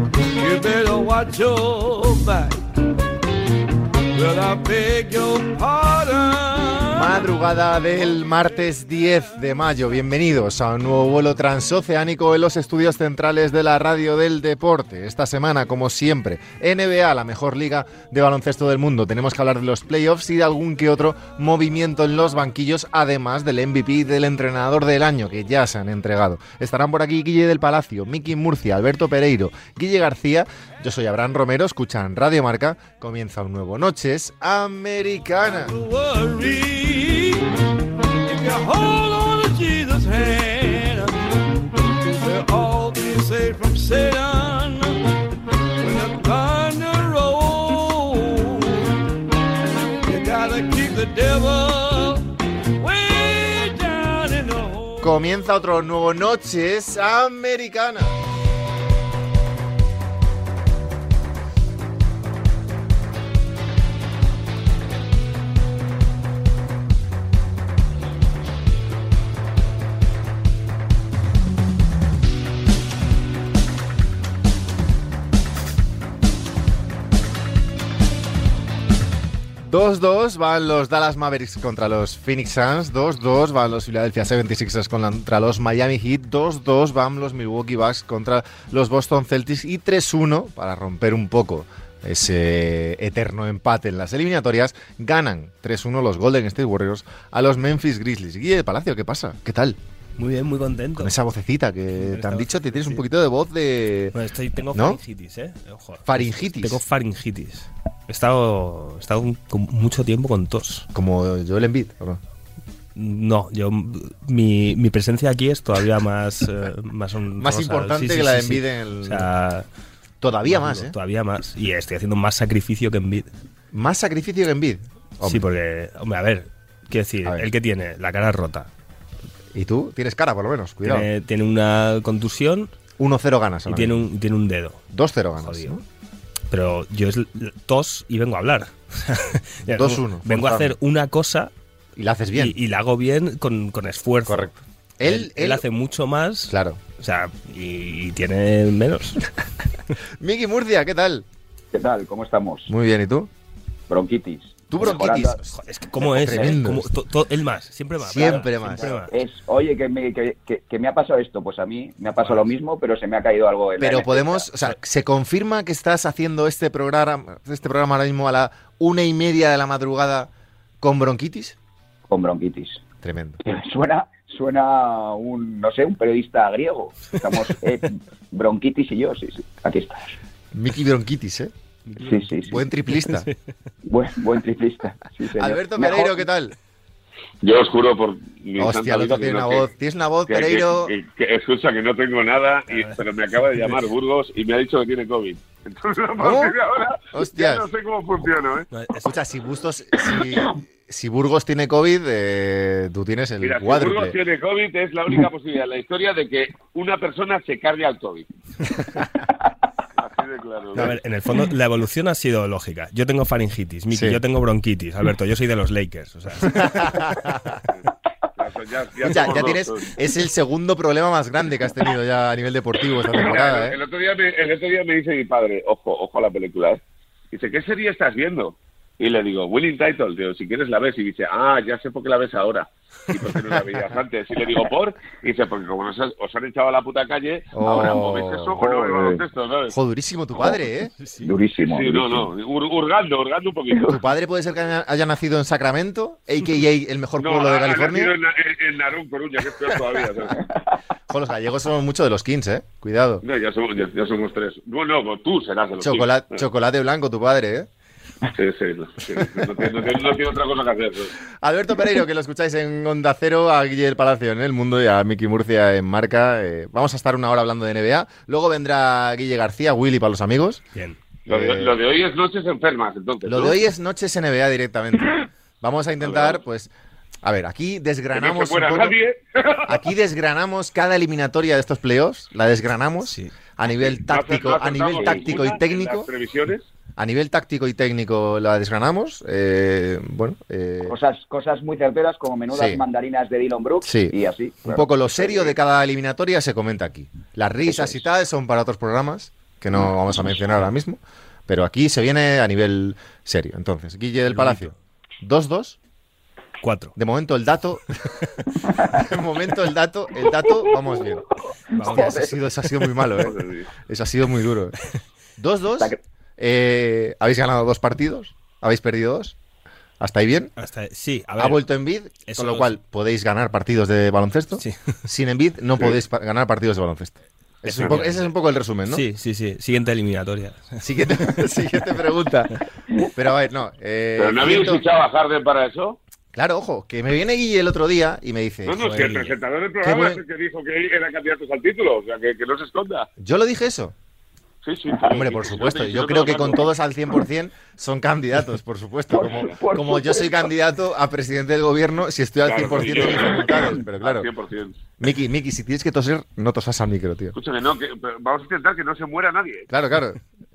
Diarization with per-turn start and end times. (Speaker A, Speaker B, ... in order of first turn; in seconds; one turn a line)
Speaker A: 0.3-2.6
Speaker A: 4.1-7.2
Speaker B: 6.9-35.8
Speaker A: 35.5-37.5
Speaker A: 38.2-45.1
Speaker A: 45.8-49.0
Speaker A: 50.0-55.1
Speaker B: 55.0-58.1
Speaker B: 79.6-99.8
Speaker C: 100.2-101.1
Speaker B: 101.0-104.2
Speaker C: 101.9-103.0
Speaker C: 104.1-110.8
Speaker B: 104.7-105.0
Speaker B: 106.0-106.8
Speaker B: 110.9-112.2
Speaker C: 113.0-119.7
Speaker B: 117.4-119.3
Speaker B: 120.2-120.9
Speaker C: 120.5-123.3
Speaker B: 123.7-125.5
Speaker C: 125.2-128.7
Speaker B: 129.5-131.1
Speaker C: 130.8-132.7
Speaker B: 133.0-134.0
Speaker C: 133.7-134.8
Speaker B: 134.9-135.8
Speaker C: 135.4-135.8
Speaker C: 136.5-141.5
Speaker B: 139.7-140.8
Speaker B: 141.9-142.6
Speaker C: 142.3-144.5
Speaker B: 144.2-145.6
Speaker C: 145.0-149.2
Speaker B: 146.5-146.8
Speaker B: 150.2-151.2
Speaker D: 151.7-152.7
Speaker B: 152.7-153.3
Speaker D: 153.9-155.4
Speaker B: 154.7-156.9
Speaker C: 155.5-159.1
Speaker B: 158.0-159.1
Speaker D: 158.2-164.5
Speaker B: 163.8-171.6
Speaker D: 172.1-172.8
Speaker B: 173.0-173.4
Speaker D: 173.4-180.2
Speaker B: 180.5-181.5
Speaker C: 181.9-182.3
Speaker D: 182.0-182.6
Speaker B: 182.5-183.3
Speaker C: 183.0-183.3
Speaker D: 183.8-186.2
Speaker B: 185.3-186.5
Speaker E: 187.4-189.7
Speaker B: 188.6-190.9
Speaker E: 190.3-198.7
Speaker C: 192.7-193.0
Speaker C: 193.5-193.8
Speaker B: 196.2-196.6
Speaker B: 197.1-197.7
Speaker C: 198.7-199.2
Speaker B: 199.0-204.2
Speaker E: 203.4-208.3
Speaker E: 210.0-210.9
Speaker C: 210.7-217.2
Speaker B: 213.9-214.2
Speaker B: 216.4-217.6
Speaker E: 218.4-219.9
Speaker B: 219.0-223.8
Speaker E: 223.1-226.8
Speaker E: 227.3-239.7
Speaker B: 237.5-238.6
Speaker D: 238.6-239.2
Speaker B: 239.7-240.9
Speaker C: 241.0-241.3
Speaker D: 241.2-242.3
Speaker E: 241.7-243.9
Speaker D: 243.7-244.0
Speaker B: 243.9-248.1
Speaker E: 247.2-250.5
Speaker B: 251.1-253.2
Speaker E: 253.2-256.4
Speaker B: 255.8-257.7
Speaker E: 258.3-261.1
Speaker B: 261.4-270.6
Speaker B: 271.2-271.8
Speaker E: 271.3-273.6
Speaker B: 273.2-276.7
Speaker E: 276.0-276.4
Speaker B: 277.2-279.0
Speaker E: 278.1-279.8
Speaker B: 279.6-286.1
Speaker C: 283.0-283.3
Speaker E: 283.7-286.6
Speaker D: 285.0-285.3
Speaker B: 287.0-290.9
Speaker D: 290.8-294.9
Speaker B: 292.5-292.8
Speaker B: 293.8-305.8
Speaker E: 295.2-295.5
Speaker D: 297.7-298.0
Speaker C: 304.3-304.7
Speaker C: 306.6-306.9
Speaker B: 306.9-311.2
Speaker D: 311.7-312.4
Speaker C: 311.8-312.2
Speaker B: 311.8-314.8
Speaker E: 313.2-313.7
Speaker B: 315.4-319.4
Speaker B: 320.0-320.5
Speaker C: 320.6-321.6
Speaker B: 321.4-329.0
Speaker C: 322.2-322.7
Speaker C: 327.6-328.3
Speaker C: 328.9-331.4
Speaker B: 330.8-334.8
Speaker E: 334.2-336.0
Speaker B: 336.3-340.2
Speaker E: 338.6-343.1
Speaker C: 338.8-339.3
Speaker B: 343.2-343.9
Speaker E: 344.6-346.7
Speaker B: 345.0-354.3
Speaker D: 349.1-350.5
Speaker E: 352.4-354.8
Speaker B: 355.0-357.3
Speaker E: 357.3-359.7
Speaker B: 359.7-360.2